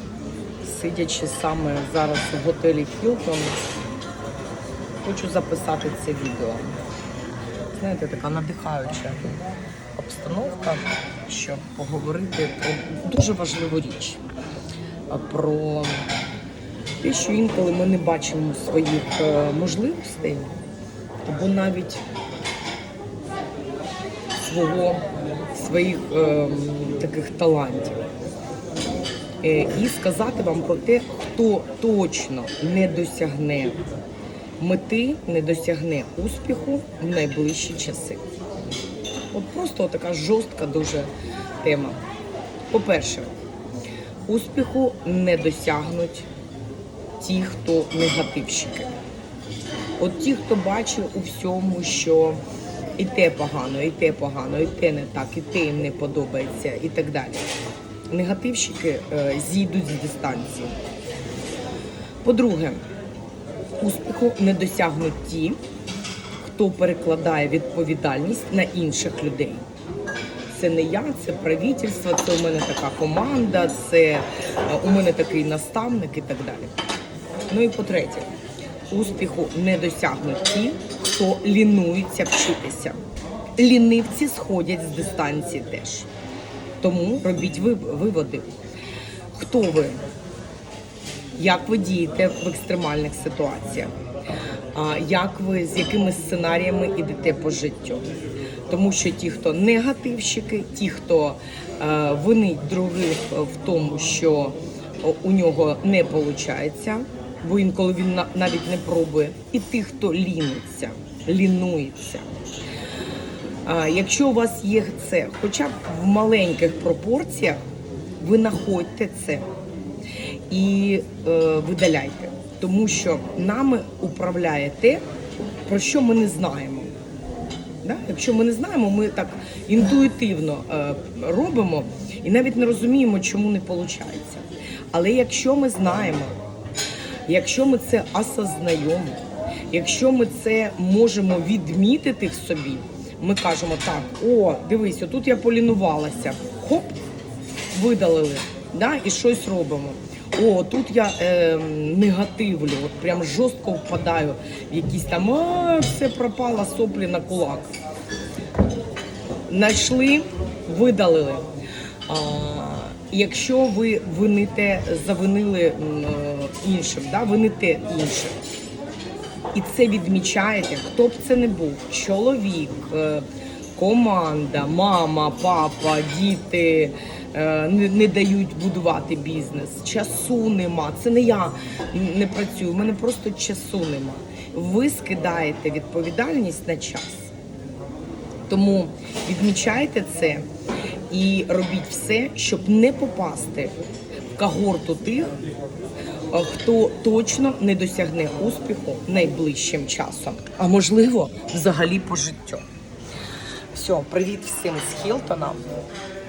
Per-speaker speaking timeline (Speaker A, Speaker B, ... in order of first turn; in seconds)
Speaker A: 0.6-3.6, 5.0-6.8, 7.8-9.4, 10.0-14.2, 15.1-16.1, 17.0-20.6, 21.2-22.0, 24.4-28.0, 29.4-33.8, 34.6-38.2, 39.3-41.1, 41.6-42.0, 42.7-43.3, 44.3-46.3, 47.2-48.9, 50.0-52.4, 53.0-57.5, 58.1-60.8, 62.2-62.8, 63.8-65.6, 66.4-69.6, 70.5-76.7, 77.5-78.3, 78.9-83.0, 83.6-86.1, 86.8-88.5, 89.3-90.0, 91.3-93.9, 94.7-98.0, 98.7-112.3, 113.6-117.6, 118.2-119.5, 120.5-125.0, 125.6-126.9, 127.8-136.4, 137.3-139.2, 139.7-147.0, 147.7-157.7, 159.5-161.4, 162.1-168.4, 169.5-187.3, 188.5-190.5, 191.1-193.7, 194.4-195.3, 196.3-202.7, 203.7-205.7